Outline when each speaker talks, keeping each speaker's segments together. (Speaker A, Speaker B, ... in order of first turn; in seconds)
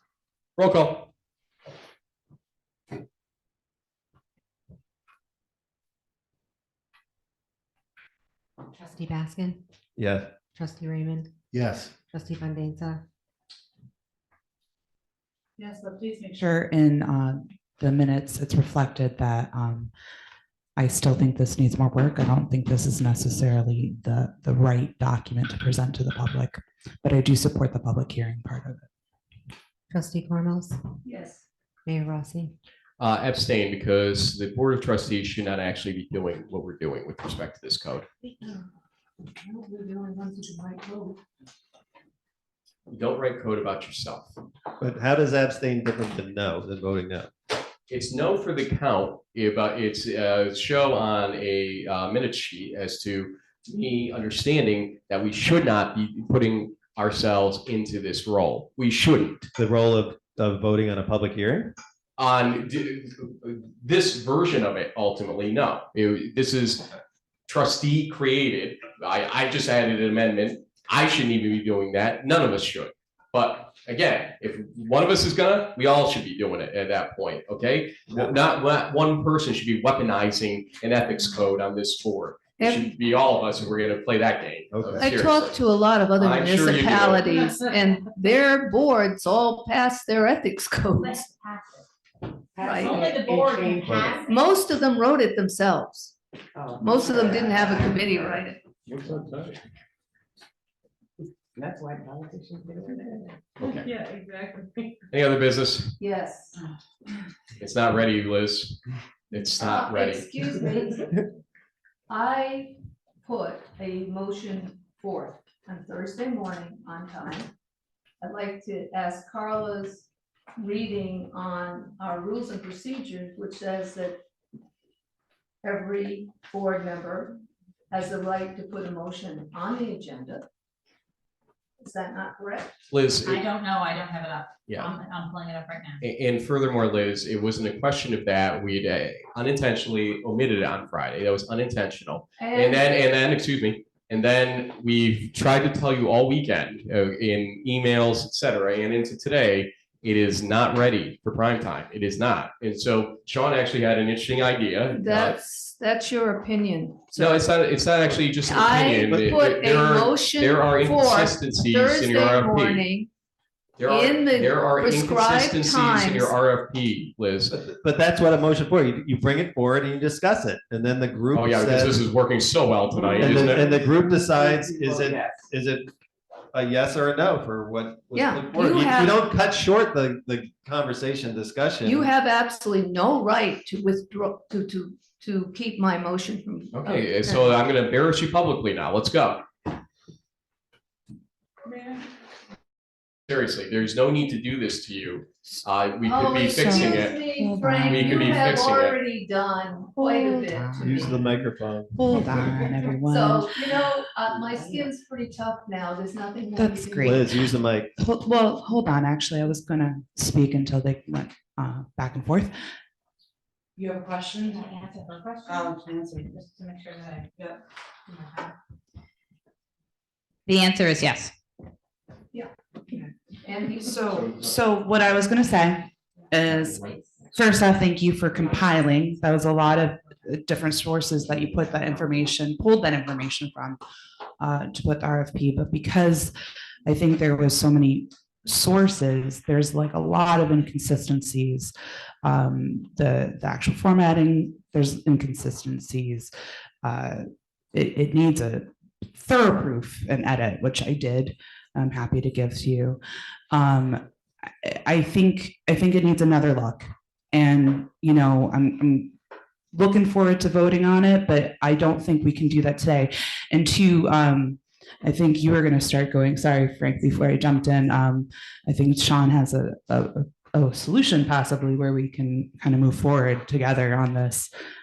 Speaker A: 0.6-1.1, 33.0-38.1, 42.9-44.4, 47.9-59.5, 62.2-66.8, 67.5-85.6, 86.2-87.2, 103.6-103.9, 105.1-106.0, 107.6-110.3, 132.9-133.4, 136.0-155.4, 157.2-162.8, 163.8-167.5, 171.3-173.7, 186.7-189.4, 193.3-197.2, 197.8-199.0
Speaker B: 8.7-9.6, 10.5-11.3, 12.1-13.0, 29.9-30.8, 31.9-32.5
Speaker C: 10.0-10.3, 11.5-11.9, 44.8-47.3, 59.6-61.7, 84.7-85.1, 93.8-94.2, 167.5-172.0, 173.0-175.9, 176.5-182.1, 200.8-202.0, 207.0-207.9
Speaker D: 15.6-16.4, 91.0-91.8, 92.8-94.3, 104.0-104.7, 133.2-136.0, 214.5-215.8, 216.3-217.3
Speaker E: 16.4-19.9, 20.8-28.9, 196.5-198.5, 200.5-201.3, 201.9-203.5, 206.6-212.5, 213.8-214.9, 215.4-216.4, 223.8-233.8, 234.4-236.3, 236.8-246.3, 246.8-253.0, 253.5-254.0, 254.6-259.1, 259.7-274.5
Speaker F: 31.0-31.4, 38.4-38.6, 39.2-41.2, 82.6-82.9, 85.0-91.3, 92.6-93.1, 94.2-96.1, 96.8-98.6, 106.0-106.6, 109.3-111.2, 112.1-117.5, 118.2-124.2, 125.6-127.4, 127.9-130.4, 131.8-132.7, 142.4-142.8, 154.9-157.4, 158.4-163.1, 163.8-166.3, 178.1-179.2, 181.8-187.5, 196.0-201.3, 203.0-207.4, 223.4-224.0
Speaker G: 92.6-93.8, 96.6-98.4, 99.0-99.5, 101.5-103.2, 173.2-173.7, 174.3-175.3, 202.1-202.9, 204.4-204.9